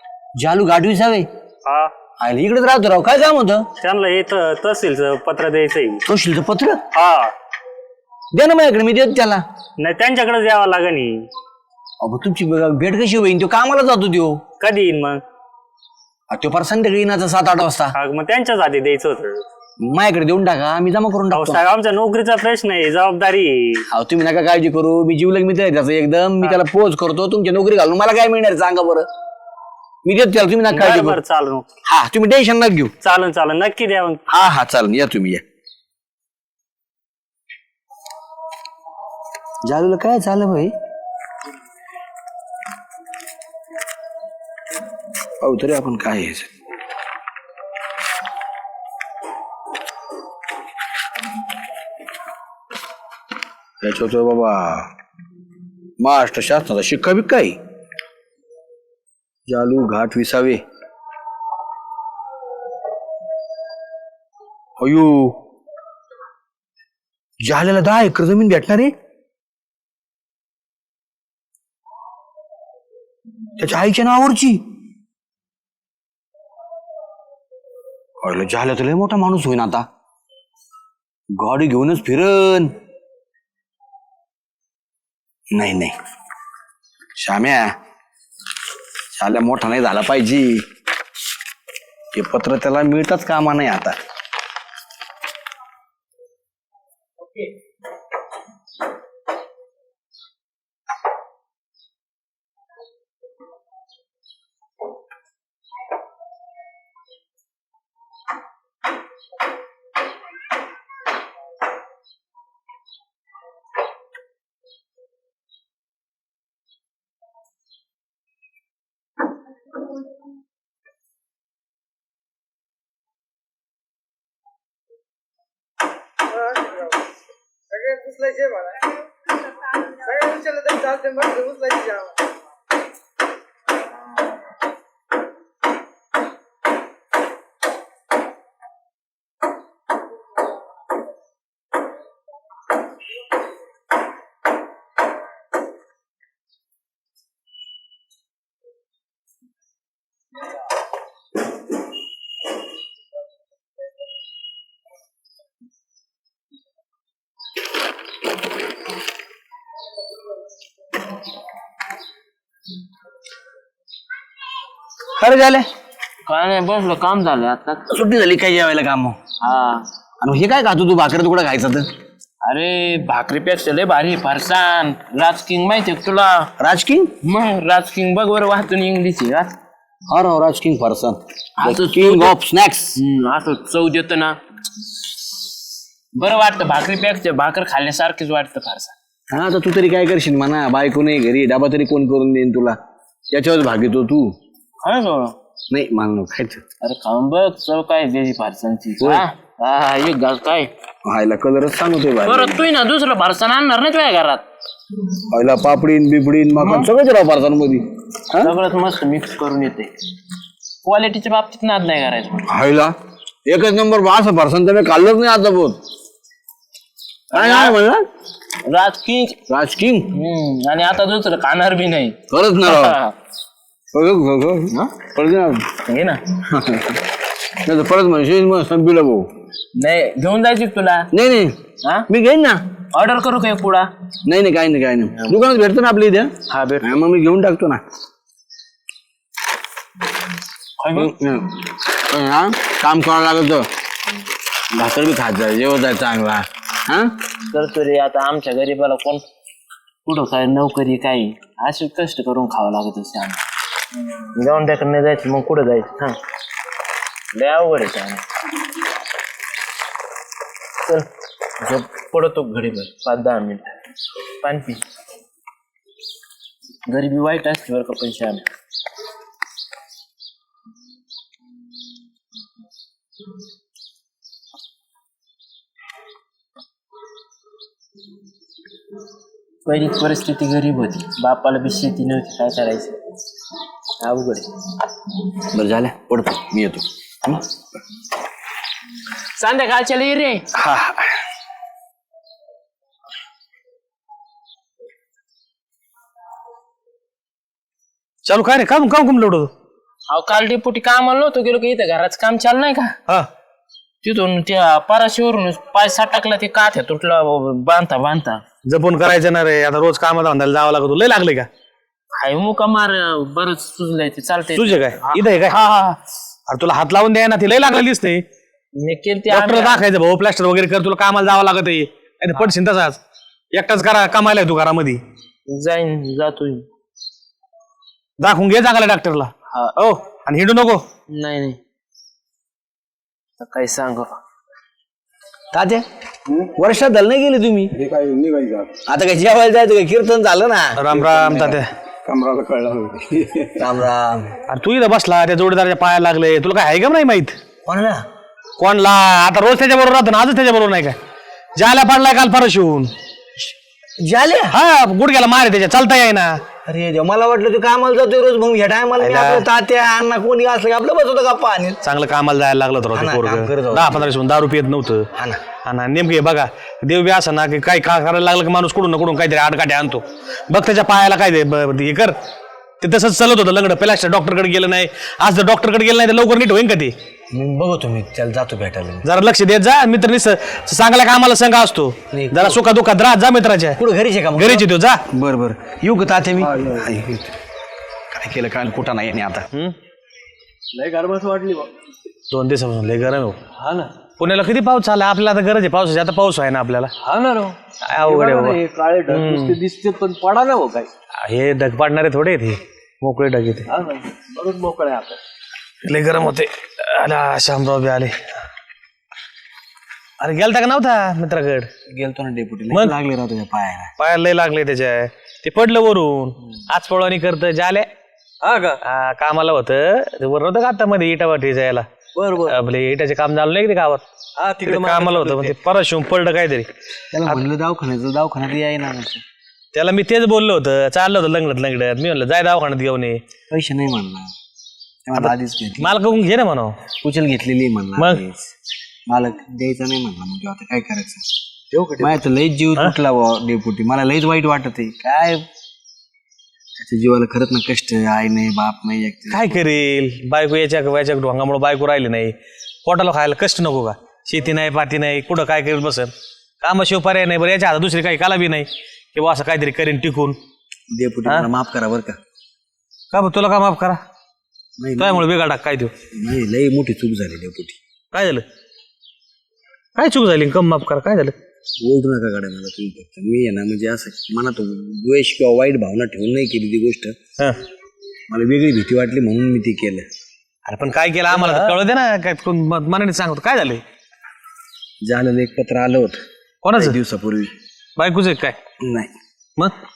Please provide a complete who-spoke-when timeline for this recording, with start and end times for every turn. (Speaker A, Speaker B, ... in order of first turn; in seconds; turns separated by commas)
Speaker A: 0.3-1.3, Speaker B: 1.6-1.9, Speaker A: 2.2-3.7, Speaker B: 3.8-6.0, Speaker A: 6.0-6.8, Speaker B: 6.9-7.3, Speaker A: 8.3-9.4, Speaker B: 9.8-11.3, Speaker A: 12.0-14.4, Speaker B: 14.6-15.2, Speaker A: 16.3-17.9, Speaker B: 17.9-19.4, Speaker A: 19.8-21.6, Speaker B: 21.4-23.8, Speaker A: 23.9-29.1, Speaker A: 30.0-31.2, Speaker B: 30.8-31.6, Speaker A: 31.9-32.9, Speaker B: 33.0-34.2, Speaker A: 34.3-35.4, Speaker A: 39.6-40.7, Speaker A: 45.4-46.5, Speaker A: 53.8-54.9, Speaker A: 56.0-57.6, Speaker A: 59.5-60.6, Speaker A: 64.8-65.3, Speaker A: 67.4-68.9, Speaker A: 73.6-74.6, Speaker A: 78.2-79.8, Speaker A: 81.3-82.7, Speaker A: 85.5-86.0, Speaker A: 87.2-87.7, Speaker A: 89.1-90.6, Speaker A: 92.1-94.0, Speaker A: 165.2-165.7, Speaker C: 166.2-167.8, Speaker A: 167.9-169.2, Speaker C: 169.4-169.9, Speaker A: 170.2-171.9, Speaker C: 172.4-176.5, Speaker A: 176.6-177.1, Speaker C: 177.2-179.5, Speaker A: 180.1-183.0, Speaker C: 181.6-182.3, Speaker C: 182.9-184.4, Speaker C: 186.1-188.9, Speaker A: 189.3-192.8, Speaker A: 193.3-194.3, Speaker C: 194.8-195.3, Speaker A: 195.7-196.6, Speaker C: 196.8-200.7, Speaker A: 199.0-199.3, Speaker A: 201.0-202.7, Speaker C: 202.2-204.4, Speaker A: 205.3-208.5, Speaker C: 206.6-206.9, Speaker C: 208.4-209.9, Speaker C: 210.8-212.5, Speaker A: 212.5-212.9, Speaker A: 213.4-215.8, Speaker C: 217.3-217.8, Speaker A: 217.3-218.1, Speaker C: 218.6-219.4, Speaker A: 219.5-220.1, Speaker C: 220.1-223.1, Speaker A: 222.3-223.0, Speaker A: 223.9-225.7, Speaker C: 225.8-226.2, Speaker A: 226.4-227.1, Speaker A: 227.6-229.3, Speaker C: 229.8-231.1, Speaker A: 231.1-232.6, Speaker C: 231.8-232.1, Speaker C: 232.9-233.9, Speaker A: 234.2-237.8, Speaker C: 236.5-237.0, Speaker C: 240.8-241.1, Speaker A: 240.9-243.7, Speaker A: 244.7-247.1, Speaker C: 247.5-249.2, Speaker C: 250.0-253.4, Speaker C: 254.3-256.2, Speaker C: 257.3-258.2, Speaker C: 261.6-263.7, Speaker C: 264.4-264.8, Speaker C: 266.9-268.5, Speaker C: 279.6-283.0, Speaker C: 284.0-284.5, Speaker A: 285.4-287.4, Speaker C: 289.3-290.4, Speaker A: 290.5-291.1, Speaker D: 298.2-299.5, Speaker C: 300.1-303.0, Speaker C: 304.0-308.4, Speaker D: 308.7-311.5, Speaker C: 312.1-316.0, Speaker D: 314.5-315.6, Speaker D: 316.5-318.2, Speaker C: 318.8-319.8, Speaker D: 319.3-323.0, Speaker D: 323.5-325.0, Speaker C: 325.5-326.6, Speaker D: 328.2-330.8, Speaker C: 329.5-329.8, Speaker C: 331.1-331.6, Speaker C: 333.4-334.2, Speaker A: 335.5-337.7, Speaker E: 337.8-338.7, Speaker A: 338.7-341.5, Speaker D: 340.8-341.7, Speaker E: 342.1-343.5, Speaker A: 343.6-344.4, Speaker D: 344.5-347.4, Speaker A: 347.6-348.0, Speaker D: 348.6-350.9, Speaker D: 351.6-352.9, Speaker A: 354.0-354.6, Speaker D: 354.5-356.4, Speaker A: 356.6-361.8, Speaker D: 359.0-359.4, Speaker D: 361.8-365.1, Speaker A: 362.9-364.1, Speaker A: 365.1-365.4, Speaker D: 365.6-372.1, Speaker D: 372.8-376.9, Speaker A: 377.3-379.1, Speaker D: 379.0-383.8, Speaker A: 382.1-382.6, Speaker A: 383.8-387.3, Speaker D: 384.3-385.0, Speaker A: 388.1-389.4, Speaker E: 390.7-391.7, Speaker D: 392.3-393.4, Speaker E: 393.6-393.9, Speaker D: 394.2-396.9, Speaker E: 397.0-400.9, Speaker D: 397.8-399.6, Speaker D: 401.2-403.7, Speaker E: 403.7-405.2, Speaker D: 405.9-408.1, Speaker D: 410.2-411.7, Speaker A: 411.9-413.9, Speaker D: 414.0-417.9, Speaker E: 418.4-418.8, Speaker D: 418.8-421.9, Speaker A: 422.2-422.5, Speaker D: 422.5-424.0, Speaker E: 424.4-425.6, Speaker D: 424.6-426.7, Speaker A: 427.1-429.2, Speaker D: 429.7-433.2, Speaker A: 433.5-434.3, Speaker A: 435.1-435.9, Speaker D: 435.1-436.9, Speaker A: 436.9-438.5, Speaker D: 438.0-438.2, Speaker A: 439.1-441.3, Speaker E: 441.7-442.2, Speaker A: 442.0-445.4, Speaker A: 446.8-449.6, Speaker D: 449.3-460.4, Speaker A: 460.9-462.2, Speaker D: 463.1-464.0, Speaker A: 464.8-465.3, Speaker D: 465.0-465.9, Speaker A: 466.1-467.8, Speaker D: 468.1-468.4, Speaker D: 469.9-471.3, Speaker A: 471.8-477.1, Speaker A: 478.3-480.1, Speaker D: 480.6-483.8, Speaker E: 481.3-481.8, Speaker A: 485.0-486.2, Speaker D: 486.6-487.0, Speaker A: 486.8-487.5, Speaker D: 488.0-488.6, Speaker A: 488.8-489.1